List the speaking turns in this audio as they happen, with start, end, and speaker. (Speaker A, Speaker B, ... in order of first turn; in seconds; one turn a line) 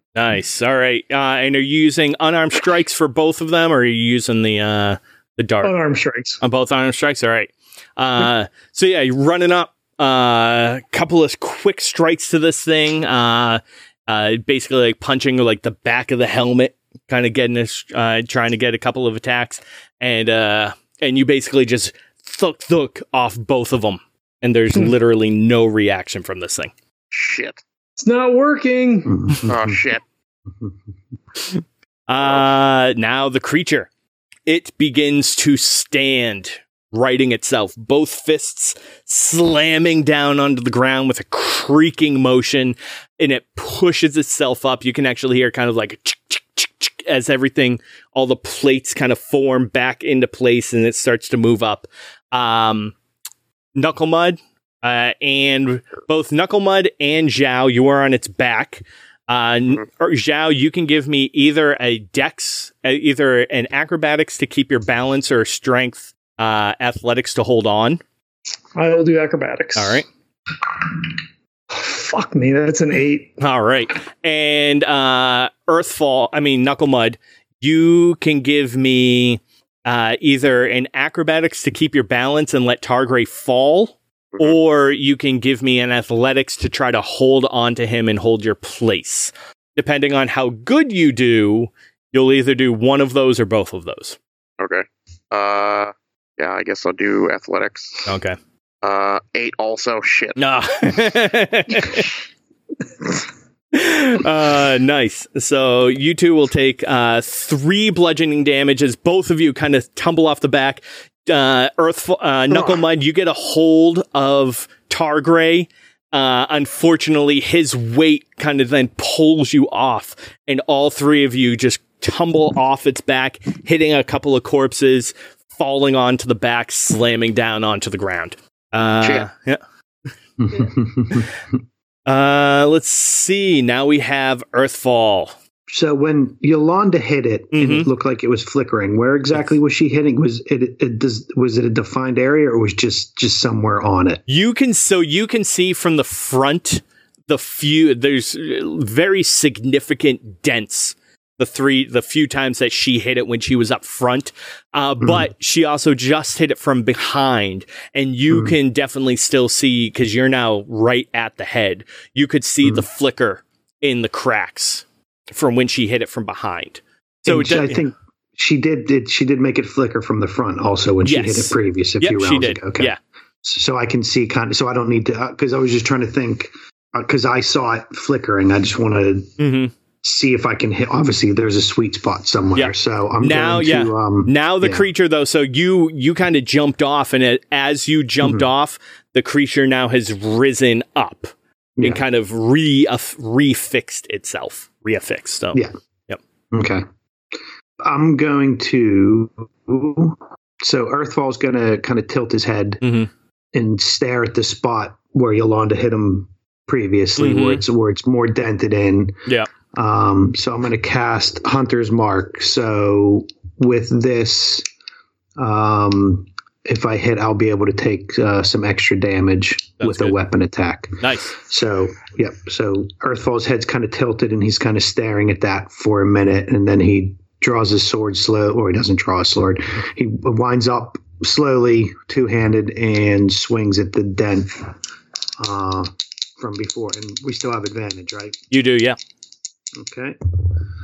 Speaker A: 0.1-5.7
Speaker B: 5.6-6.4
Speaker A: 6.4-26.7
Speaker C: 27.1-27.6
Speaker B: 28.0-29.3
Speaker D: 29.1-29.8
Speaker C: 29.4-30.0
Speaker A: 32.1-33.9
Speaker A: 34.5-52.9
Speaker A: 53.8-68.0
Speaker B: 68.7-70.0
Speaker A: 69.8-70.0
Speaker B: 70.6-71.1
Speaker B: 71.7-73.4
Speaker A: 73.4-94.2
Speaker C: 84.3-84.6
Speaker C: 94.6-98.0
Speaker A: 98.0-98.4
Speaker C: 98.8-100.4
Speaker A: 100.4-102.1
Speaker A: 103.7-129.6
Speaker C: 129.0-129.3
Speaker D: 130.4-131.4
Speaker A: 132.1-135.3
Speaker D: 135.7-144.2
Speaker A: 137.5-137.9
Speaker A: 144.3-167.8
Speaker D: 155.0-155.3
Speaker D: 158.3-158.6
Speaker D: 167.2-179.3
Speaker A: 171.0-173.0
Speaker A: 179.4-179.7
Speaker D: 180.0-184.9
Speaker A: 182.5-196.2
Speaker D: 188.2-188.5
Speaker D: 191.8-192.0
Speaker D: 196.5-196.8
Speaker D: 197.8-202.8
Speaker A: 202.8-203.1
Speaker D: 203.5-209.2
Speaker A: 207.2-207.6
Speaker D: 209.7-214.7
Speaker D: 215.3-234.7
Speaker A: 219.8-220.2
Speaker A: 221.0-221.3
Speaker D: 235.4-238.4
Speaker A: 238.5-239.0
Speaker D: 239.8-240.5